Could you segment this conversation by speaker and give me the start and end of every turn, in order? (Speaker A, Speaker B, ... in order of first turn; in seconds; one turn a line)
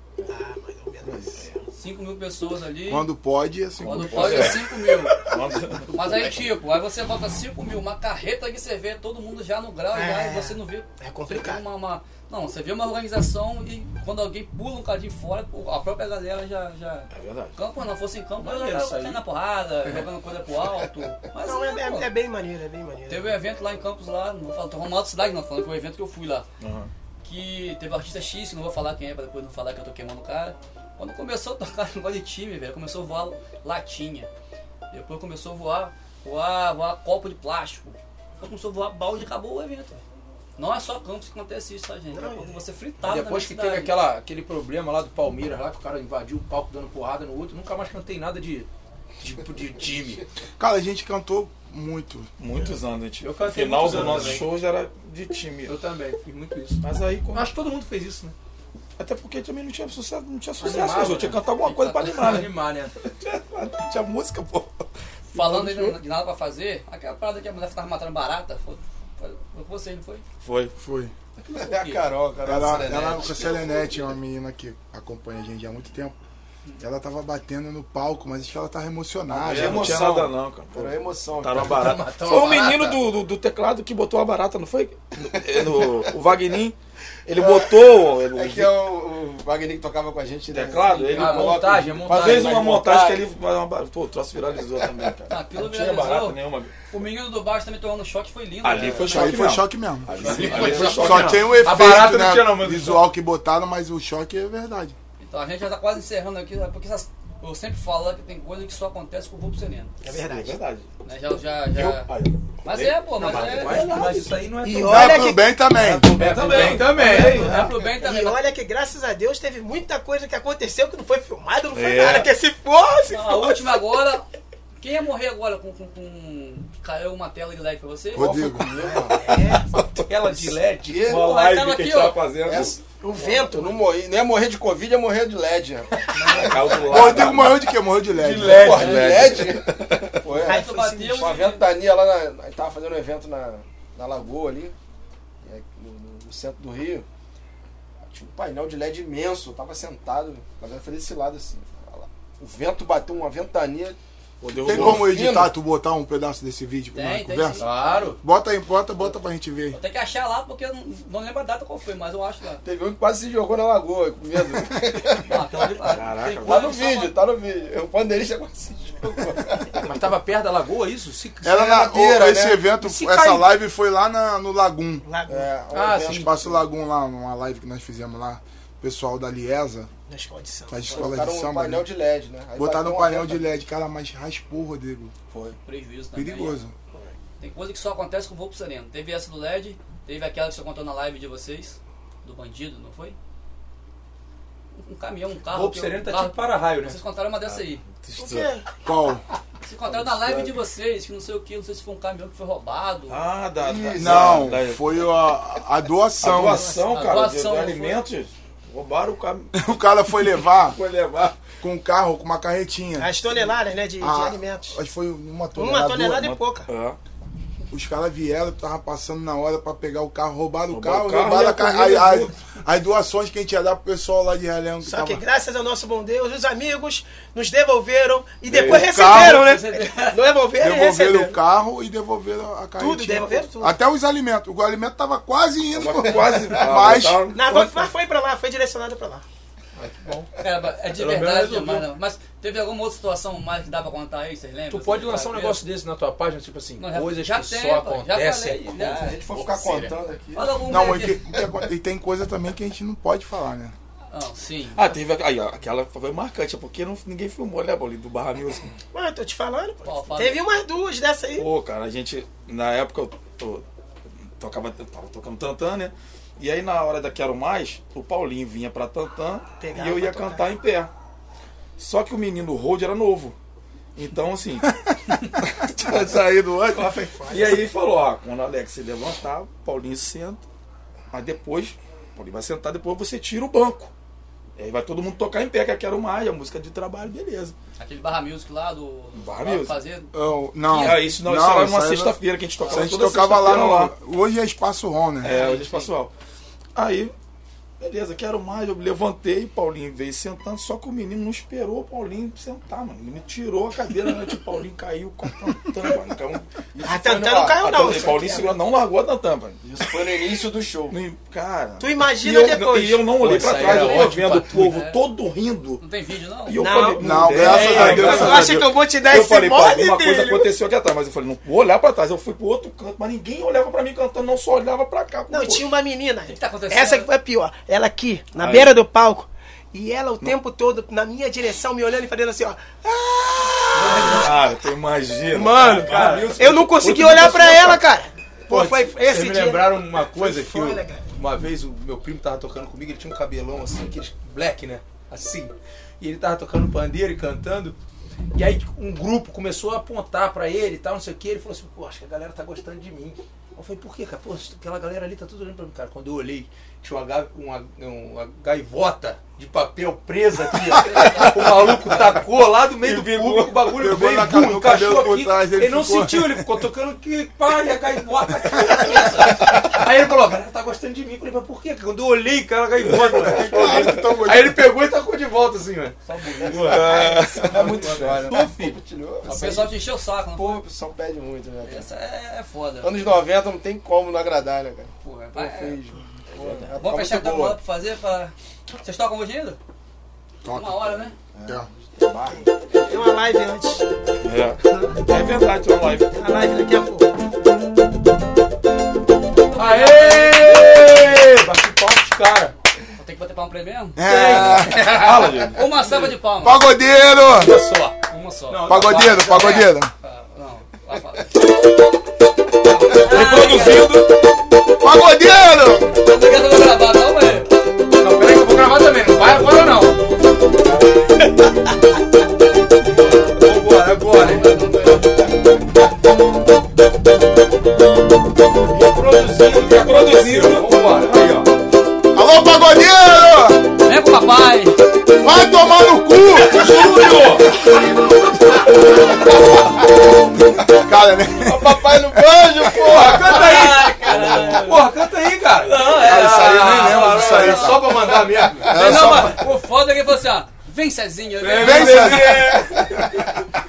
Speaker A: 0.2-1.5
Speaker B: 1.1-1.4
Speaker C: 1.8-3.1
Speaker D: 2.9-4.6
Speaker E: 3.8-6.2
Speaker C: 3.8-5.2
Speaker C: 5.9-22.1
Speaker A: 9.9-11.7
Speaker E: 17.1-17.6
Speaker F: 18.4-19.2
Speaker A: 21.4-23.4
Speaker C: 23.1-26.5
Speaker E: 26.6-26.9
Speaker C: 27.2-34.3
Speaker C: 34.9-40.0
Speaker C: 40.6-44.0
Speaker A: 42.1-42.6
Speaker F: 43.0-48.7
Speaker F: 49.2-50.2
Speaker D: 50.6-52.3
Speaker E: 52.4-55.8
Speaker F: 53.2-54.5
Speaker F: 55.7-58.4
Speaker E: 56.8-57.5
Speaker E: 59.0-62.5
Speaker F: 60.6-63.0
Speaker C: 61.5-62.2
Speaker E: 63.2-64.8
Speaker C: 65.3-70.2
Speaker B: 65.4-66.0
Speaker E: 70.4-70.8
Speaker D: 70.8-71.1
Speaker B: 71.5-74.0
Speaker D: 72.4-76.2
Speaker D: 76.8-80.1
Speaker B: 79.3-81.9
Speaker E: 79.4-86.8
Speaker F: 81.5-83.0
Speaker B: 85.2-86.3
Speaker E: 87.3-88.8
Speaker B: 87.3-93.3
Speaker E: 90.5-96.7
Speaker C: 90.9-91.6
Speaker F: 91.0-92.7
Speaker B: 94.8-95.1
Speaker C: 95.3-99.4
Speaker E: 98.6-101.8
Speaker D: 99.0-100.1
Speaker F: 100.2-103.1
Speaker D: 100.8-105.0
Speaker C: 105.2-109.9
Speaker A: 110.0-110.6
Speaker E: 110.1-110.9
Speaker C: 111.0-112.1
Speaker E: 111.7-114.1
Speaker C: 112.6-114.1
Speaker F: 113.2-117.6
Speaker A: 114.6-115.4
Speaker D: 114.8-116.1
Speaker E: 116.0-117.7
Speaker C: 116.4-118.4
Speaker A: 117.1-123.8
Speaker E: 121.7-122.3
Speaker C: 123.1-124.3
Speaker C: 124.8-128.4
Speaker D: 128.2-128.7
Speaker B: 128.2-129.6
Speaker A: 128.8-129.7
Speaker F: 130.1-131.2
Speaker B: 130.8-131.4
Speaker E: 131.0-132.8
Speaker C: 131.1-132.3
Speaker B: 132.4-137.4
Speaker A: 132.9-133.9
Speaker A: 136.1-137.1
Speaker E: 136.3-140.2
Speaker D: 136.9-139.0
Speaker B: 138.2-144.8
Speaker C: 138.8-139.3
Speaker A: 140.3-141.3
Speaker C: 140.4-141.7
Speaker B: 145.4-147.1
Speaker B: 148.1-155.6
Speaker E: 154.4-155.2
Speaker D: 154.7-159.8
Speaker C: 156.9-158.2
Speaker F: 157.6-158.2
Speaker C: 159.7-162.6
Speaker B: 162.6-165.4
Speaker C: 165.0-167.1
Speaker E: 165.9-166.7
Speaker B: 166.4-169.9
Speaker F: 169.8-171.7
Speaker D: 171.4-175.1
Speaker B: 171.5-172.6
Speaker F: 172.7-173.5
Speaker A: 175.0-175.5
Speaker B: 175.3-176.7
Speaker F: 175.7-176.4
Speaker D: 176.1-179.9
Speaker A: 180.1-181.1
Speaker D: 180.7-181.9
Speaker B: 180.9-183.5
Speaker D: 182.6-185.1
Speaker B: 185.3-185.6
Speaker C: 185.6-186.6
Speaker D: 186.2-186.7
Speaker C: 187.4-193.2
Speaker C: 194.7-197.8
Speaker F: 195.5-197.0
Speaker E: 197.5-198.5
Speaker A: 198.2-198.7
Speaker D: 198.8-199.2
Speaker C: 199.7-203.3
Speaker B: 199.9-200.6
Speaker E: 203.1-205.1
Speaker B: 203.6-204.6
Speaker D: 204.0-206.7
Speaker E: 206.2-209.8
Speaker A: 206.3-207.0
Speaker C: 206.9-208.1
Speaker D: 209.6-210.8
Speaker E: 210.3-211.5
Speaker D: 211.6-213.1
Speaker A: 213.0-214.8
Speaker D: 214.0-216.4
Speaker A: 215.6-216.7
Speaker E: 216.7-217.0
Speaker D: 217.7-225.2
Speaker E: 220.7-222.3
Speaker A: 224.8-231.4
Speaker E: 228.5-228.9
Speaker D: 228.6-229.5
Speaker C: 229.0-230.3
Speaker D: 230.6-237.9
Speaker A: 232.8-233.8
Speaker E: 235.7-237.4
Speaker B: 236.0-236.8
Speaker A: 237.3-239.2
Speaker F: 239.8-240.3
Speaker C: 240.4-245.6
Speaker F: 240.9-241.9
Speaker F: 244.7-249.9
Speaker C: 246.8-249.8
Speaker B: 248.8-250.7
Speaker C: 250.3-251.2
Speaker D: 250.7-253.8
Speaker C: 254.1-254.9
Speaker E: 254.7-258.8
Speaker A: 258.9-261.5
Speaker C: 259.8-260.5
Speaker E: 261.4-263.6
Speaker E: 264.4-270.9
Speaker A: 269.6-270.5
Speaker E: 271.8-273.4
Speaker E: 274.0-274.7
Speaker D: 274.7-276.7
Speaker E: 275.2-280.4
Speaker A: 276.8-277.7
Speaker E: 281.1-283.9
Speaker E: 284.6-287.6
Speaker C: 287.8-290.1
Speaker E: 289.1-289.8
Speaker D: 290.1-295.4
Speaker E: 290.7-293.9
Speaker C: 292.6-292.9
Speaker E: 295.2-296.1
Speaker C: 295.2-295.9
Speaker E: 296.8-297.1
Speaker E: 297.8-306.5
Speaker B: 306.8-308.6
Speaker A: 306.8-308.5
Speaker E: 307.6-310.1
Speaker B: 309.6-311.0
Speaker E: 310.9-315.8
Speaker A: 311.8-314.0
Speaker F: 313.1-314.8
Speaker B: 313.2-314.0
Speaker C: 314.4-315.0
Speaker C: 315.8-316.6
Speaker E: 316.5-325.7
Speaker A: 316.6-320.5
Speaker D: 317.0-318.6
Speaker C: 317.5-318.3
Speaker A: 325.3-334.6
Speaker C: 326.3-327.1
Speaker E: 328.4-328.8
Speaker E: 333.7-337.9
Speaker F: 334.0-334.2
Speaker A: 335.3-341.1
Speaker F: 335.7-336.4
Speaker F: 338.5-347.8
Speaker F: 348.3-378.4
Speaker C: 360.7-362.2
Speaker E: 362.8-363.8
Speaker D: 363.7-366.5
Speaker E: 373.0-374.0
Speaker D: 373.2-374.7
Speaker C: 376.1-377.5
Speaker E: 376.5-378.8
Speaker B: 376.9-381.9
Speaker C: 379.2-380.6
Speaker C: 381.6-383.0
Speaker B: 382.8-387.6
Speaker C: 385.0-385.8
Speaker E: 386.4-386.7
Speaker C: 386.8-389.6
Speaker D: 390.4-390.9
Speaker C: 390.5-391.2
Speaker B: 391.4-393.0
Speaker A: 392.8-393.9
Speaker E: 394.2-396.2
Speaker A: 396.1-397.1
Speaker C: 399.5-400.5
Speaker F: 399.5-402.5
Speaker C: 403.0-406.7
Speaker D: 404.0-404.9
Speaker F: 404.1-404.7
Speaker E: 404.5-405.8
Speaker D: 406.4-407.6
Speaker F: 407.3-408.0
Speaker C: 408.1-411.4
Speaker F: 408.5-409.7
Speaker D: 408.6-409.9
Speaker C: 412.7-414.0
Speaker E: 412.8-414.2
Speaker D: 414.8-415.9
Speaker C: 416.0-417.5
Speaker F: 418.0-420.0
Speaker F: 423.0-424.6
Speaker C: 424.2-425.1
Speaker F: 428.7-431.2
Speaker E: 429.4-431.5
Speaker D: 432.1-433.6
Speaker C: 433.8-434.8
Speaker D: 435.2-437.1
Speaker E: 436.4-437.6
Speaker F: 437.1-437.5
Speaker D: 440.6-443.1
Speaker B: 441.4-444.4
Speaker F: 442.8-449.2
Speaker C: 443.2-444.9
Speaker D: 444.1-444.5
Speaker C: 445.6-447.9
Speaker D: 445.9-449.4
Speaker C: 448.7-452.4
Speaker E: 451.4-452.9
Speaker D: 451.6-452.7
Speaker C: 452.9-453.3